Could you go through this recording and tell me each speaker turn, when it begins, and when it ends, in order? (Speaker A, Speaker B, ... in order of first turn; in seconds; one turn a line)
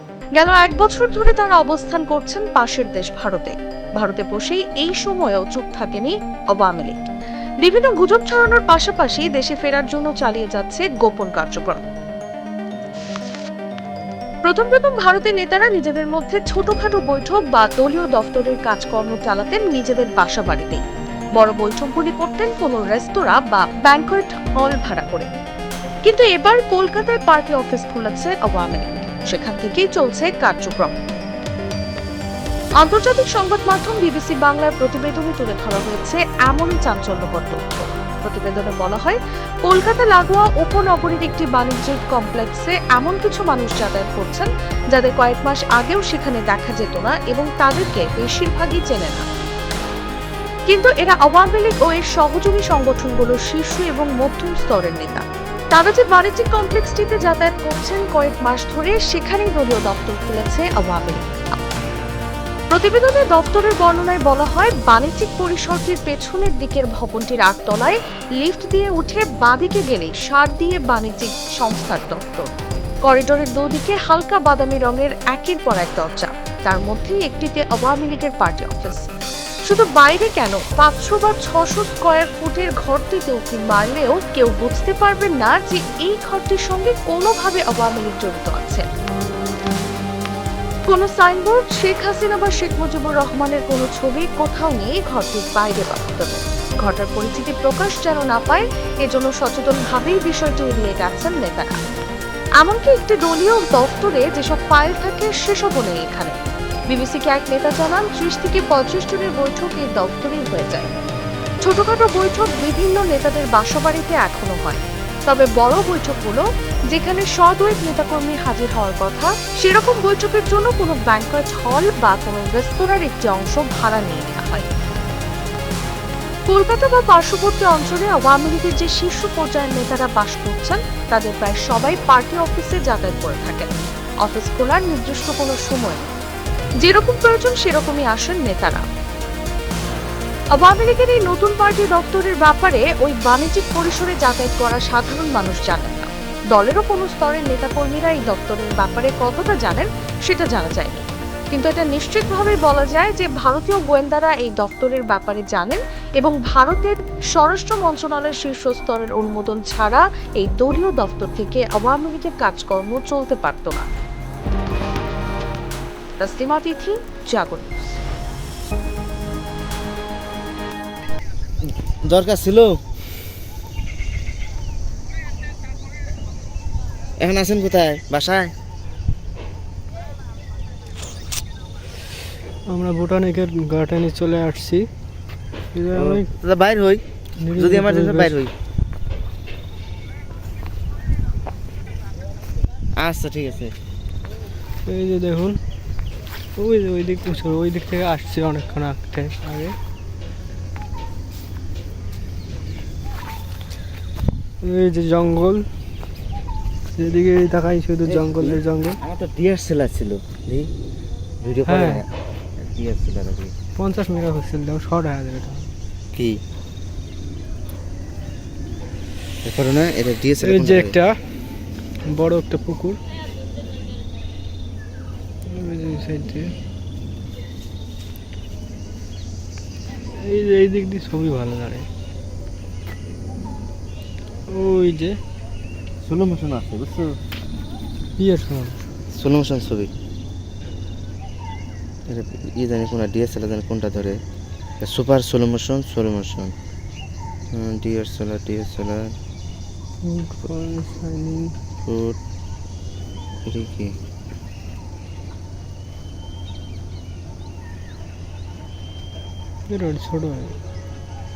Speaker A: 0.4-7.0
Speaker A: 7.6-11.8
Speaker A: 14.4-20.8
Speaker A: 21.4-25.3
Speaker A: 26.0-30.9
Speaker A: 32.8-49.2
Speaker A: 50.7-61.3
Speaker A: 62.7-72.5
Speaker A: 73.0-79.1
Speaker A: 79.7-88.8
Speaker A: 90.8-101.8
Speaker A: 102.6-106.3
Speaker A: 106.9-110.9
Speaker A: 111.6-124.7
Speaker A: 126.5-133.7
Speaker A: 134.2-136.1
Speaker A: 136.8-138.8
Speaker A: 140.5-163.9
Speaker A: 166.2-167.7
Speaker B: 172.0-172.8
Speaker B: 177.2-178.5
Speaker C: 182.7-184.9
Speaker C: 185.7-186.3
Speaker B: 185.9-187.0
Speaker C: 187.4-188.4
Speaker B: 187.6-188.5
Speaker B: 192.9-193.7
Speaker C: 194.8-195.6
Speaker C: 196.6-199.8
Speaker C: 204.6-205.7
Speaker C: 206.9-209.0
Speaker B: 208.1-210.7
Speaker B: 211.4-213.5
Speaker C: 211.6-212.0
Speaker C: 213.8-215.7
Speaker B: 216.1-216.4
Speaker B: 219.4-220.9
Speaker C: 220.4-221.2
Speaker C: 222.1-223.0
Speaker C: 225.4-226.5
Speaker C: 230.1-231.9
Speaker C: 234.5-235.2
Speaker B: 236.0-237.2
Speaker C: 238.2-238.8
Speaker B: 239.1-239.9
Speaker B: 242.1-244.2
Speaker B: 244.8-246.5
Speaker B: 247.5-249.2
Speaker C: 250.0-251.6
Speaker B: 251.8-252.2
Speaker B: 253.4-253.9
Speaker C: 259.7-260.6